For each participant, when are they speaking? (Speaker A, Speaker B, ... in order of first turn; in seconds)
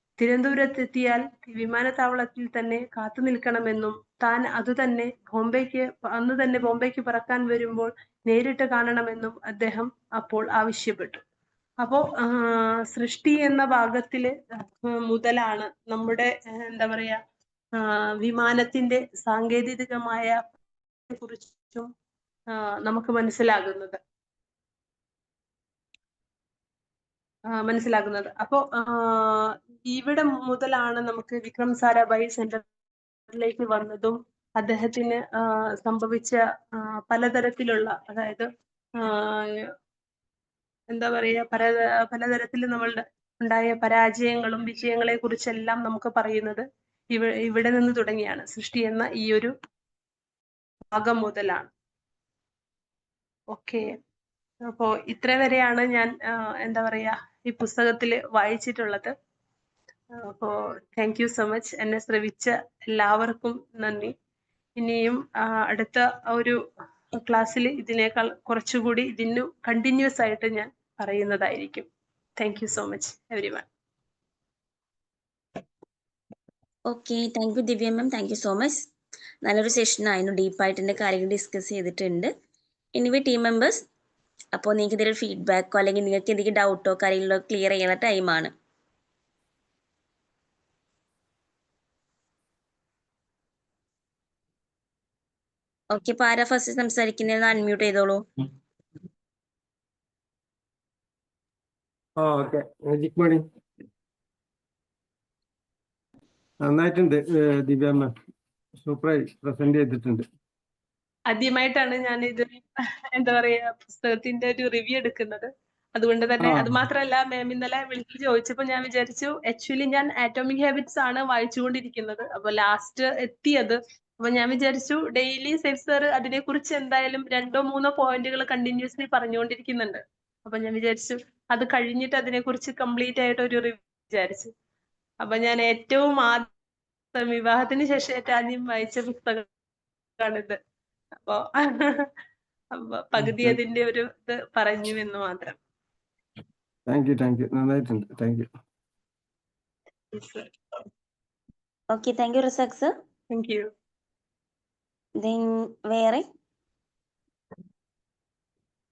Speaker A: 0.2-11.2, 11.8-14.3, 14.9-17.2, 17.8-20.4, 21.1-21.9, 22.6-24.0, 27.6-32.7, 33.3-39.6, 40.9-49.5, 50.9-51.7, 53.5-53.9, 54.7-59.1, 60.2-64.1, 64.8-66.6, 67.2-71.9, 72.4-73.7, 111.3-112.6, 113.2-134.5, 135.2-136.5, 137.1-139.4, 140.2-140.6, 141.3-142.1, 142.8-145.5, 150.1-150.5, 153.3-153.7
Speaker B: 76.9-78.9, 79.5-82.3, 83.0-83.8, 84.5-88.5, 95.9-98.2, 151.9-152.9, 155.2-156.2
Speaker C: 102.2-103.4, 106.7-108.1, 108.8-110.2, 116.4-116.8, 143.3-143.6, 146.9-148.5